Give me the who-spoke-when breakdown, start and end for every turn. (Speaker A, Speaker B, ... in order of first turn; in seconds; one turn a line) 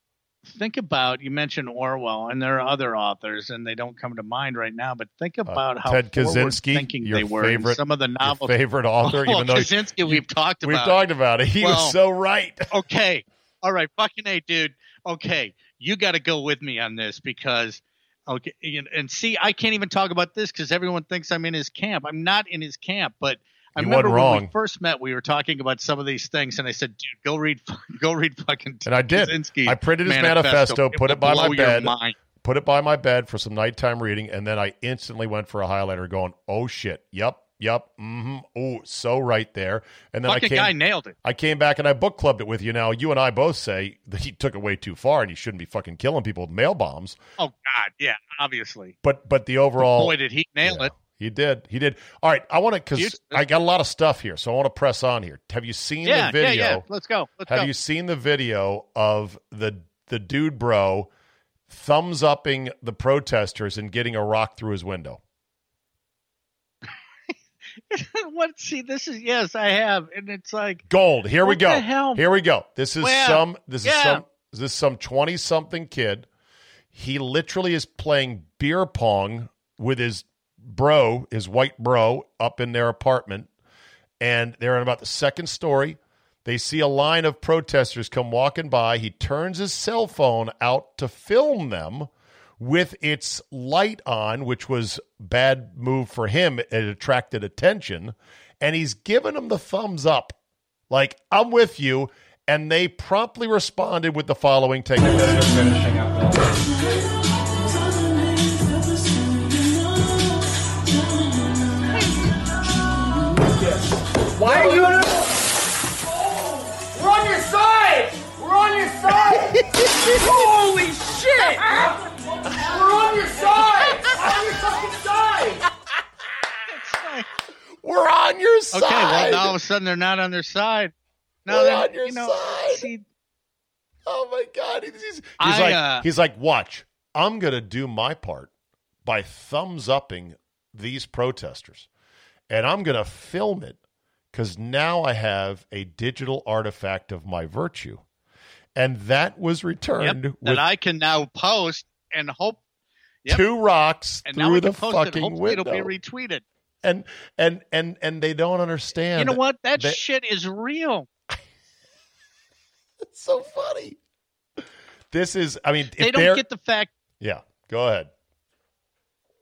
Speaker A: 0.5-11.0
Speaker B: 5.5-12.7
Speaker A: 11.6-12.0
Speaker A: 12.7-32.2
Speaker B: 23.8-24.5
Speaker B: 28.9-47.2
Speaker A: 40.3-41.1
Speaker A: 47.4-49.0
Speaker B: 49.0-56.8
Speaker A: 49.8-50.9
Speaker A: 53.0-53.4
Speaker A: 56.0-57.7
Speaker B: 57.5-61.1
Speaker B: 61.7-65.2
Speaker A: 67.9-70.8
Speaker B: 70.9-76.3
Speaker A: 71.4-72.2
Speaker A: 73.0-74.2
Speaker B: 76.9-83.5
Speaker B: 84.2-100.4
Speaker B: 100.9-105.6
Speaker C: 105.0-106.6
Speaker C: 113.5-115.3
Speaker C: 116.2-122.0
Speaker A: 121.3-121.9
Speaker C: 122.5-125.6
Speaker A: 126.7-127.3
Speaker B: 127.8-129.6
Speaker A: 128.7-130.9
Speaker A: 131.5-133.0
Speaker B: 131.5-132.9
Speaker B: 134.1-138.5
Speaker A: 135.4-136.1
Speaker B: 139.1-141.9
Speaker B: 142.5-143.8
Speaker B: 144.3-148.0
Speaker B: 148.8-150.6
Speaker A: 150.0-152.6
Speaker B: 153.3-155.9
Speaker A: 154.3-156.4
Speaker B: 156.8-160.0
Speaker A: 159.2-161.1
Speaker B: 163.1-164.0
Speaker B: 165.1-166.4
Speaker A: 166.0-166.9
Speaker B: 167.2-168.1